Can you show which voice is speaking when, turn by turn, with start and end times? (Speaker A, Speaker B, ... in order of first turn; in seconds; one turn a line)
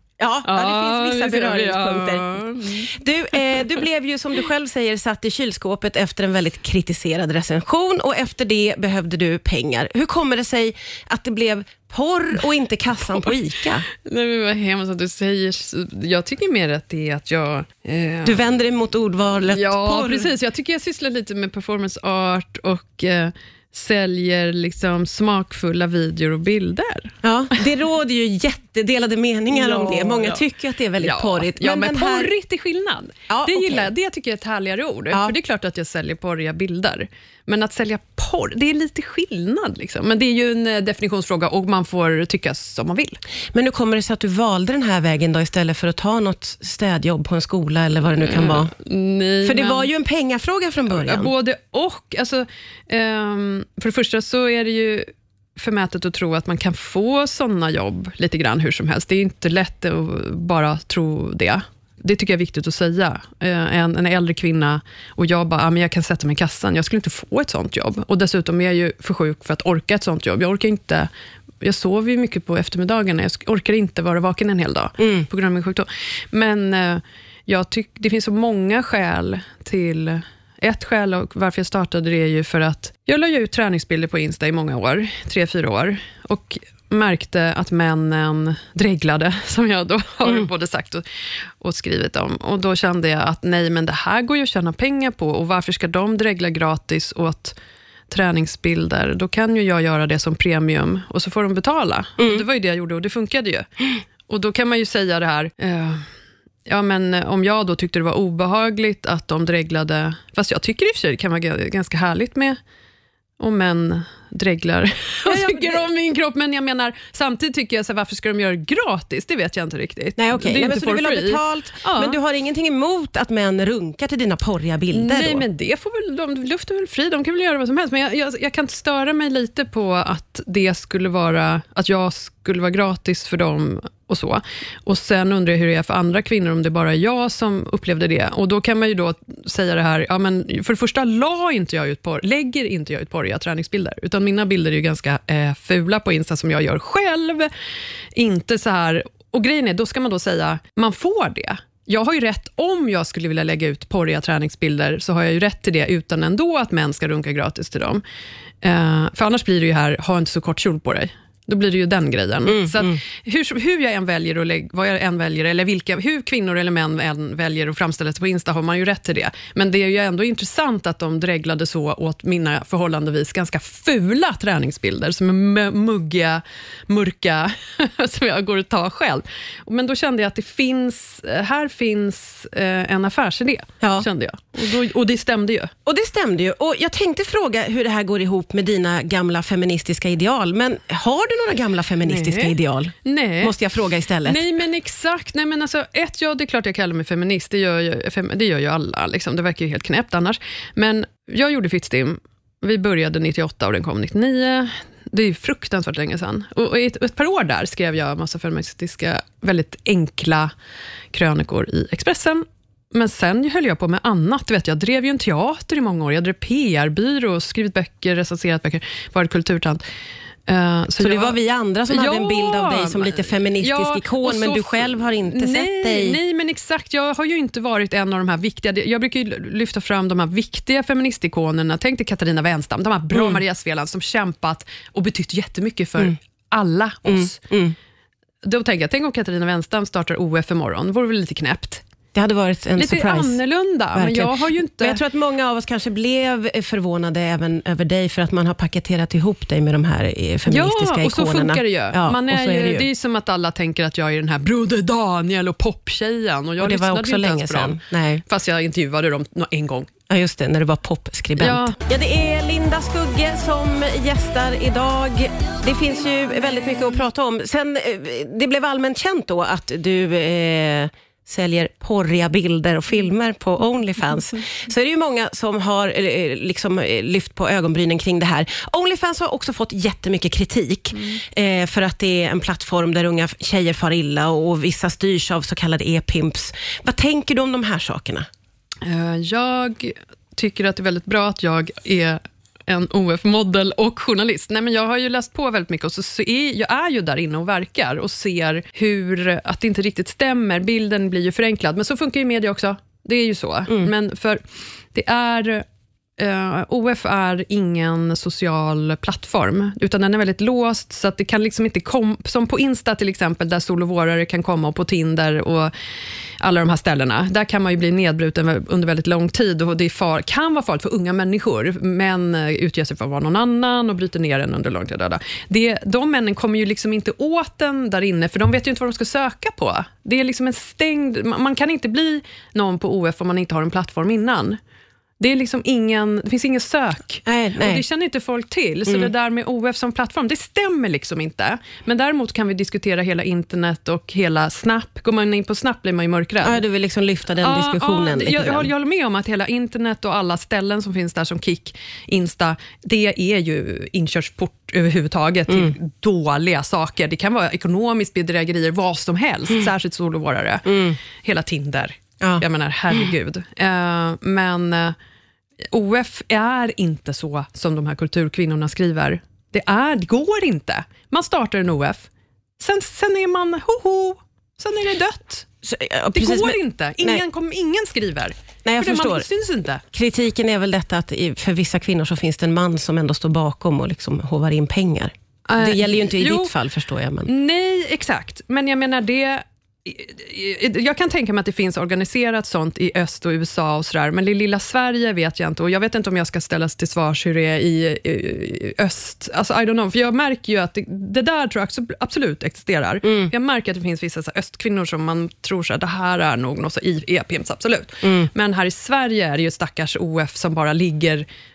Speaker A: 0.2-13.8
Speaker B: 0.4-3.6
Speaker B: 14.0-18.4
Speaker A: 18.2-20.3
Speaker B: 19.5-27.1
Speaker A: 27.2-32.3
Speaker B: 29.5-30.4
Speaker B: 31.0-43.2
Speaker A: 33.3-33.9
Speaker A: 43.5-48.7
Speaker B: 48.2-49.9
Speaker A: 49.4-51.3
Speaker B: 50.9-71.1
Speaker B: 71.6-91.0
Speaker A: 75.0-75.3
Speaker B: 91.6-97.5
Speaker B: 98.1-106.0
Speaker A: 102.2-102.4
Speaker B: 106.7-112.6
Speaker B: 113.4-122.2
Speaker A: 115.2-115.8
Speaker A: 120.2-125.4
Speaker B: 124.9-147.5
Speaker B: 148.1-158.0
Speaker B: 158.6-185.7
Speaker A: 162.5-163.0
Speaker A: 183.8-184.1
Speaker A: 185.8-194.4
Speaker B: 192.0-193.5
Speaker B: 194.2-210.5
Speaker B: 211.1-219.8
Speaker B: 220.5-221.3
Speaker A: 221.0-226.2
Speaker B: 221.9-237.4
Speaker A: 237.1-237.8
Speaker B: 238.4-241.8
Speaker A: 242.1-243.4
Speaker B: 242.8-245.0
Speaker A: 243.9-252.9
Speaker B: 250.5-259.9
Speaker A: 256.6-258.2
Speaker A: 260.1-288.3
Speaker B: 261.4-261.8
Speaker B: 288.8-305.6
Speaker B: 306.2-315.7
Speaker B: 316.4-334.6
Speaker B: 335.2-346.6
Speaker A: 337.2-337.8
Speaker A: 346.4-348.7
Speaker B: 347.4-364.9
Speaker A: 360.6-361.0
Speaker A: 362.2-363.1
Speaker B: 365.7-372.1
Speaker B: 372.6-375.5
Speaker A: 375.6-377.2
Speaker B: 376.1-379.8
Speaker A: 378.6-379.3
Speaker A: 379.9-387.3
Speaker B: 385.5-386.5
Speaker B: 387.2-411.2
Speaker A: 403.0-403.3
Speaker A: 408.0-408.3